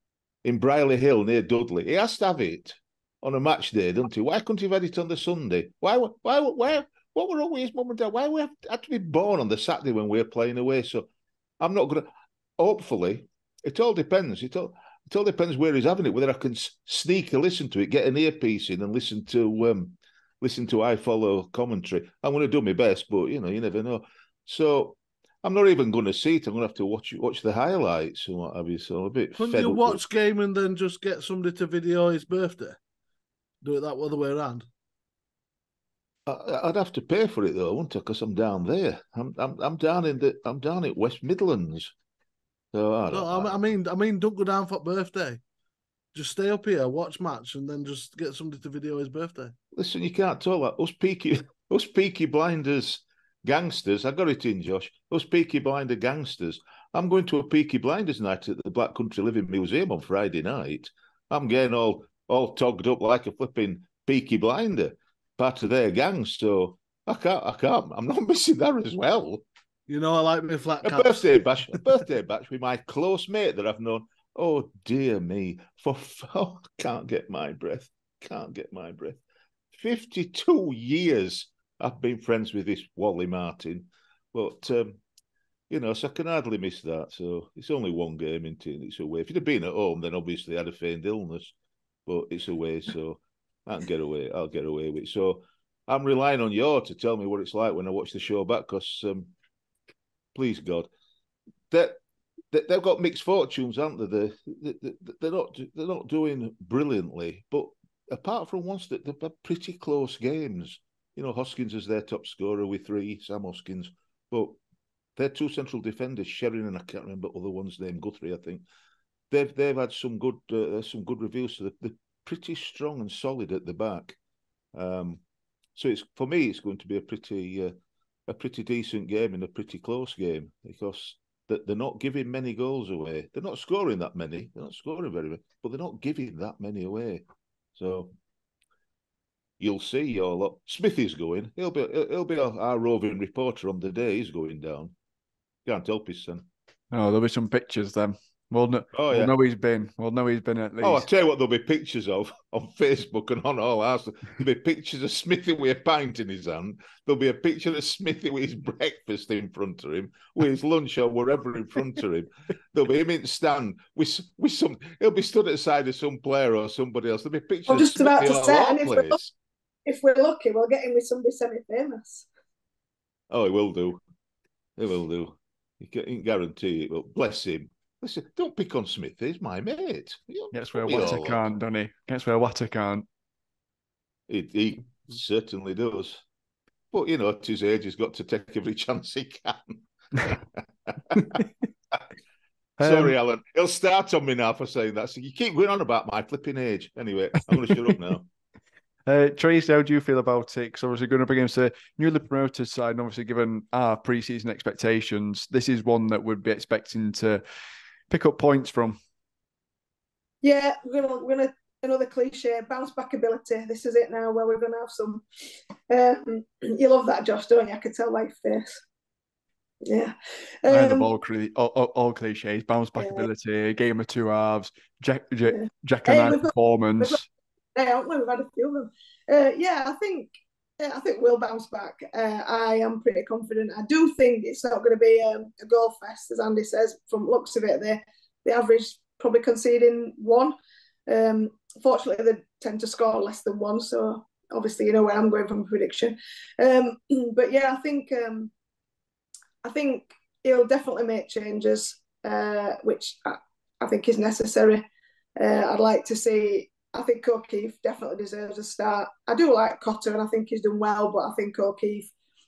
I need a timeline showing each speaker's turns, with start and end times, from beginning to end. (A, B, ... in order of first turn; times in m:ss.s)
0:00.4-0:11.1 A
0:11.6-0:30.0 A
0:29.4-0:32.8 B
0:33.6-0:34.6 B
0:36.2-0:41.9 A
0:42.7-0:43.6 A
0:43.1-0:45.4 B
0:46.1-0:49.5 B
0:49.7-1:09.4 A
1:09.9-1:11.2 B
1:10.8-1:19.2 A
1:19.7-1:25.0 A
1:25.7-1:31.5 A
1:32.1-1:39.3 A
1:40.3-1:40.9 A
1:41.7-1:42.0 A
1:42.5-1:54.6 A
1:55.2-1:58.6 A
1:59.3-2:04.2 A
2:04.7-2:05.2 A
2:05.8-2:07.7 A
2:08.3-2:17.2 A
2:17.8-2:18.1 A
2:19.6-2:24.9 A
2:25.6-2:26.5 A
2:26.9-2:31.1 C
2:28.9-2:29.3 A
2:30.8-2:49.3 A
2:47.7-2:49.2 D
2:49.8-2:52.3 D
2:53.3-2:54.0 A
2:54.8-3:01.4 A
3:00.5-3:03.0 C
3:04.3-3:06.2 A
3:06.9-3:10.4 A
3:12.8-3:13.1 C
3:12.8-3:18.2 A
3:19.0-3:27.4 C
3:28.1-3:29.0 C
3:30.4-3:35.2 D
3:35.9-3:38.8 D
3:39.8-3:41.1 D
3:40.7-3:47.2 C
3:43.0-3:43.3 D
3:45.5-3:47.2 D
3:47.7-4:00.5 D
4:01.1-4:08.5 D
4:09.6-4:14.8 D
4:15.4-4:22.1 D